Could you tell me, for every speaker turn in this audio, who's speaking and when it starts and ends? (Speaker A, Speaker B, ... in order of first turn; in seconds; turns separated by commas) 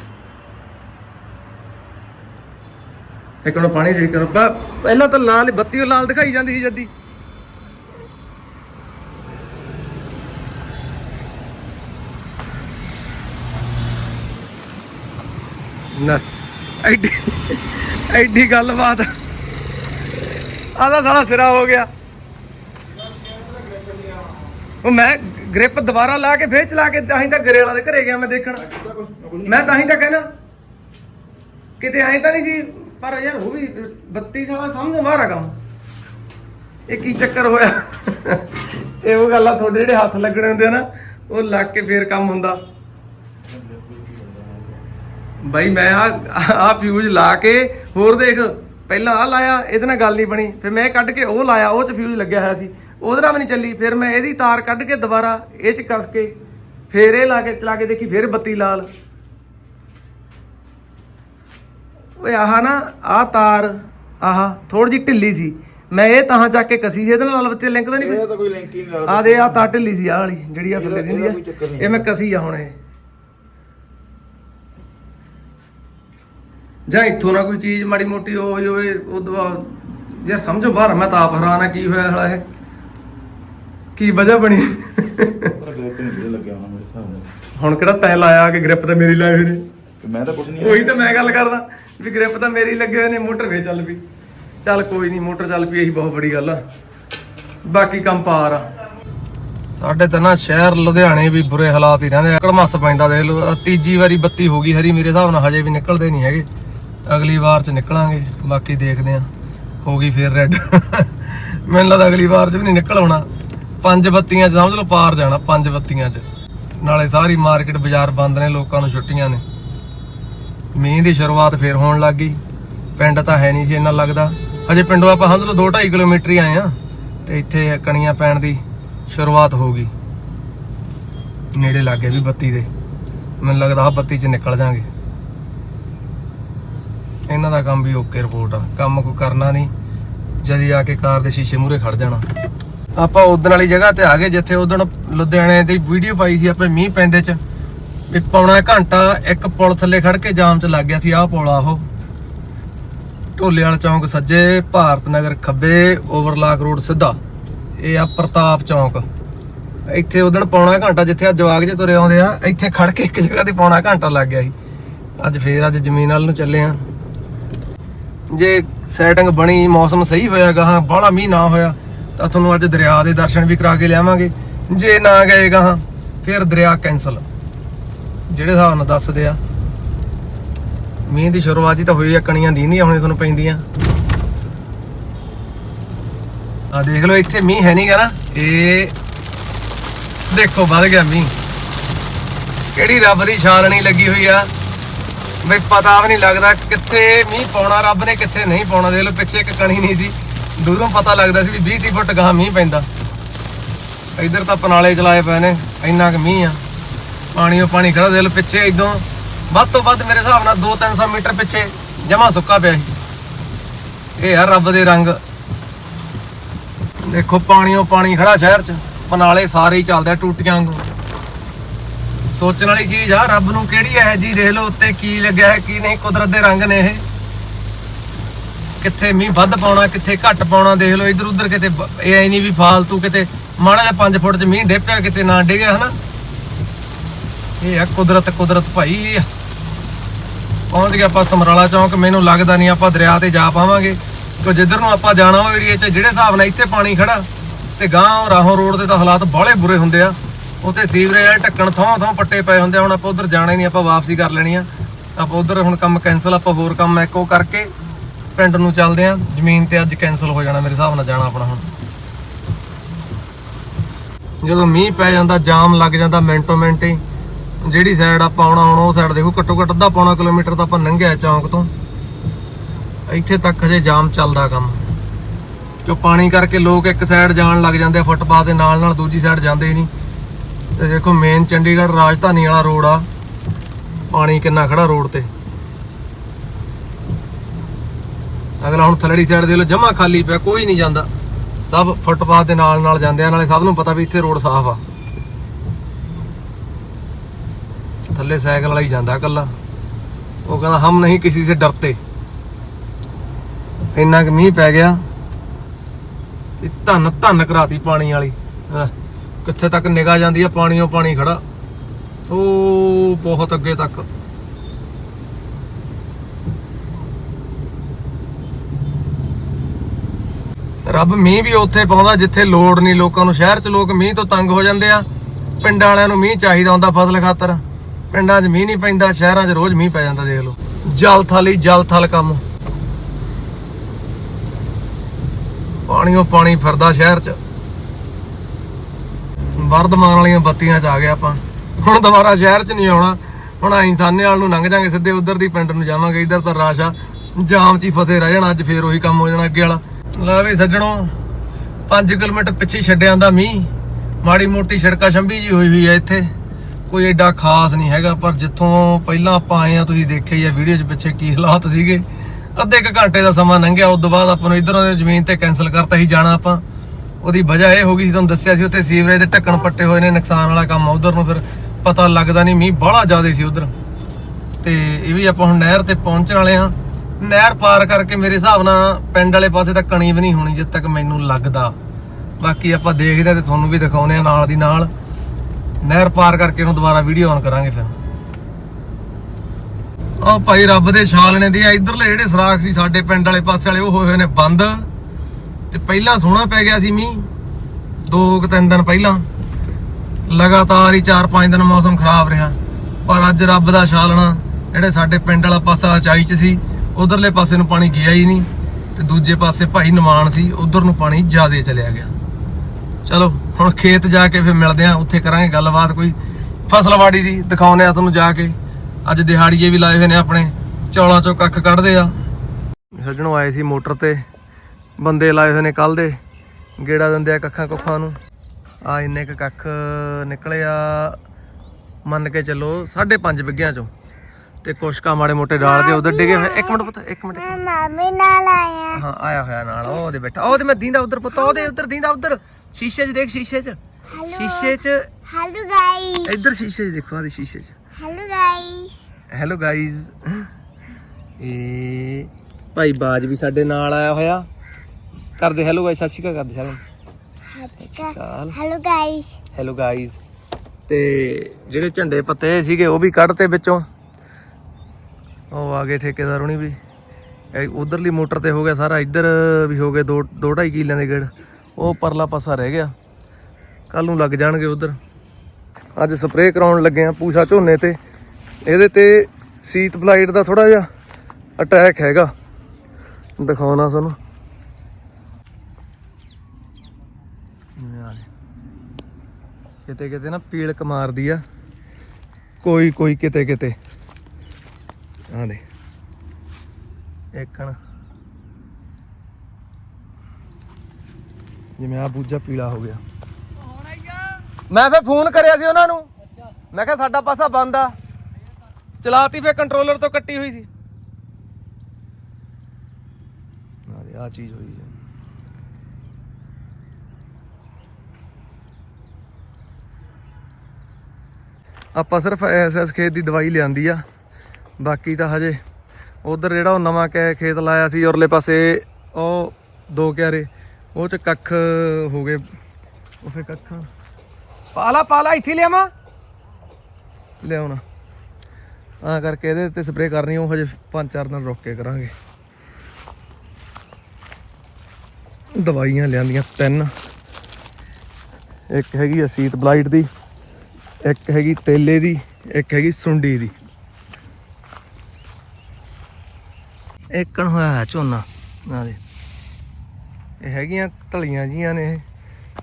Speaker A: 3.4-6.9, Speaker A: 15.9-16.2, Speaker A: 16.8-19.1, Speaker A: 20.7-21.9, Speaker B: 23.3-24.3, Speaker A: 24.8-28.7, Speaker B: 28.7-29.6, Speaker A: 29.4-30.3, Speaker A: 31.8-35.6, Speaker A: 36.9-42.6, Speaker B: 43.5-44.8, Speaker A: 45.4-56.4, Speaker A: 56.9-58.9, Speaker A: 62.2-68.3, Speaker B: 68.0-69.6, Speaker A: 69.1-72.8, Speaker B: 70.8-72.0, Speaker A: 76.9-82.5, Speaker A: 84.0-85.6, Speaker B: 85.5-87.3, Speaker A: 87.6-89.7, Speaker B: 90.0-91.2, Speaker A: 90.6-94.0, Speaker A: 94.6-96.6, Speaker A: 97.7-98.7, Speaker A: 99.8-106.5, Speaker A: 107.1-109.3, Speaker A: 109.8-113.3, Speaker A: 113.8-116.3, Speaker A: 116.8-119.4, Speaker A: 120.7-122.4, Speaker A: 123.0-129.9, Speaker A: 131.5-132.7, Speaker A: 133.4-134.9, Speaker A: 137.3-139.7, Speaker A: 140.4-142.3, Speaker A: 143.0-147.4, Speaker A: 148.1-151.9, Speaker A: 153.4-157.2, Speaker A: 157.8-159.1, Speaker A: 159.9-164.6, Speaker A: 165.2-166.8, Speaker A: 168.3-177.2, Speaker A: 178.3-179.4, Speaker A: 181.1-183.6, Speaker A: 186.7-189.0, Speaker A: 190.3-191.3, Speaker A: 192.7-194.5, Speaker A: 195.4-202.9, Speaker A: 204.2-206.6, Speaker A: 207.3-212.9, Speaker A: 214.2-215.2, Speaker A: 217.0-220.9, Speaker A: 222.3-227.1, Speaker A: 228.8-236.0, Speaker A: 237.6-239.3, Speaker A: 240.7-257.7, Speaker A: 258.4-261.7, Speaker A: 264.4-267.0, Speaker A: 267.6-271.7, Speaker A: 273.1-274.8, Speaker A: 275.8-279.9, Speaker A: 280.8-283.1, Speaker A: 284.1-285.3, Speaker A: 288.6-291.1, Speaker A: 291.7-294.8, Speaker A: 298.0-299.5, Speaker A: 300.5-302.0, Speaker A: 303.9-305.0, Speaker A: 306.6-308.9, Speaker A: 309.4-311.4, Speaker A: 312.3-314.1, Speaker A: 320.8-325.1, Speaker A: 325.6-332.4, Speaker A: 335.9-337.4, Speaker A: 339.6-351.2, Speaker A: 351.9-356.3, Speaker A: 356.9-366.6, Speaker A: 367.2-373.7, Speaker A: 374.6-381.8, Speaker A: 382.4-384.9, Speaker A: 385.8-388.0, Speaker A: 390.2-394.9, Speaker A: 395.7-397.3, Speaker A: 398.0-399.3, Speaker A: 400.3-412.1, Speaker A: 413.1-422.2, Speaker A: 422.9-424.2, Speaker A: 425.0-426.2, Speaker A: 426.8-428.2, Speaker A: 428.8-431.2, Speaker A: 432.1-433.9, Speaker A: 434.6-437.6, Speaker C: 435.6-439.0, Speaker A: 438.9-445.1, Speaker C: 444.1-446.3, Speaker A: 446.2-447.8, Speaker C: 448.0-449.0, Speaker A: 449.3-450.5, Speaker A: 451.4-454.5, Speaker A: 455.4-456.8, Speaker C: 457.5-459.4, Speaker A: 457.8-458.6, Speaker A: 459.5-460.2, Speaker A: 460.9-463.9, Speaker A: 465.5-466.8, Speaker A: 467.5-472.9, Speaker A: 473.9-475.0, Speaker A: 476.0-478.0, Speaker A: 478.6-480.9, Speaker A: 481.6-482.3, Speaker A: 483.4-484.2, Speaker A: 487.8-488.3, Speaker A: 489.9-491.4, Speaker A: 492.6-493.8, Speaker A: 495.3-495.6, Speaker A: 497.3-497.8, Speaker A: 501.8-503.0, Speaker A: 504.7-506.1, Speaker A: 506.7-507.9, Speaker A: 509.0-510.7, Speaker A: 513.9-514.9, Speaker A: 522.0-524.0, Speaker A: 524.8-525.6, Speaker A: 526.2-532.5, Speaker A: 533.2-533.9, Speaker A: 534.7-535.9, Speaker A: 537.4-537.8, Speaker A: 539.0-542.1, Speaker A: 545.5-546.9, Speaker A: 548.7-550.1, Speaker A: 551.0-553.6, Speaker A: 557.1-559.0, Speaker A: 560.4-562.0